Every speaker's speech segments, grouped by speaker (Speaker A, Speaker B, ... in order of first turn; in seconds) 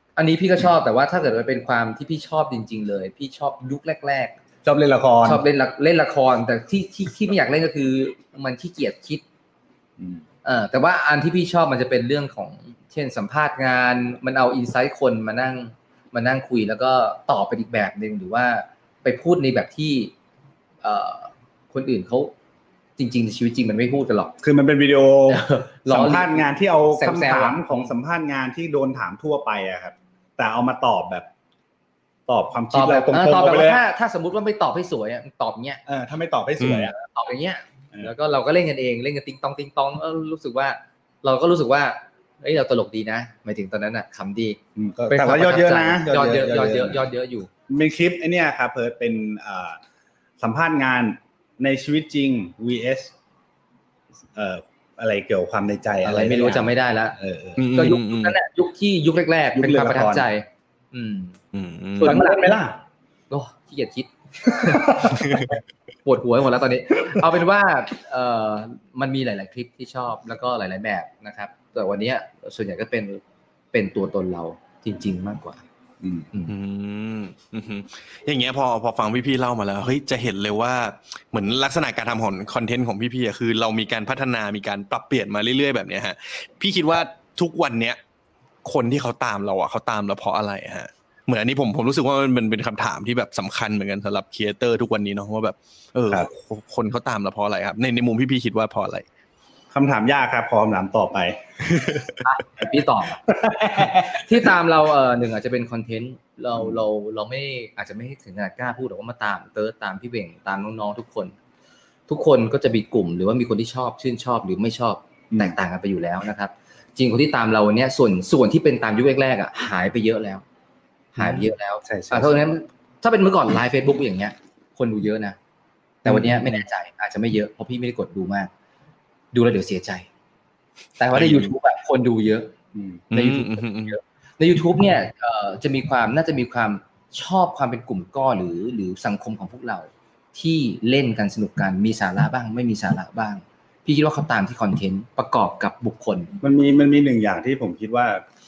Speaker A: 0.2-4.3, 5.2-9.2, 10.4-20.1, 20.8-22.3, 23.0-24.4, 25.3-27.9, 32.7-35.8, 36.9-44.6, 45.1-47.5, 56.0-57.2, 57.7-61.4, 62.0-62.6, 63.3-65.3, 66.0-73.2, 73.7-75.6, 102.2-103.2, 104.1-111.3, 112.1-120.4, 121.2-125.4, 126.0-128.5, 129.3-130.1, 131.0-132.5, 133.1-146.3
Speaker B: 4.6-5.4, 24.4-31.3, 32.3-33.8, 35.9-36.9, 44.8-47.1, 47.7-49.8, 50.4-53.1, 54.3-57.7, 59.5-60.3, 62.0-62.8, 64.6-65.4, 76.0-76.3, 99.7-101.4, 103.3-104.3, 115.3-115.5, 121.2-122.4, 126.0-126.5, 132.7-133.0, 146.4-148.2
Speaker C: 36.6-36.9, 57.6-58.4, 61.5-62.2, 65.2-65.5, 76.5-88.0, 88.6-99.0, 101.7-102.0, 131.1-131.5, 133.1-133.9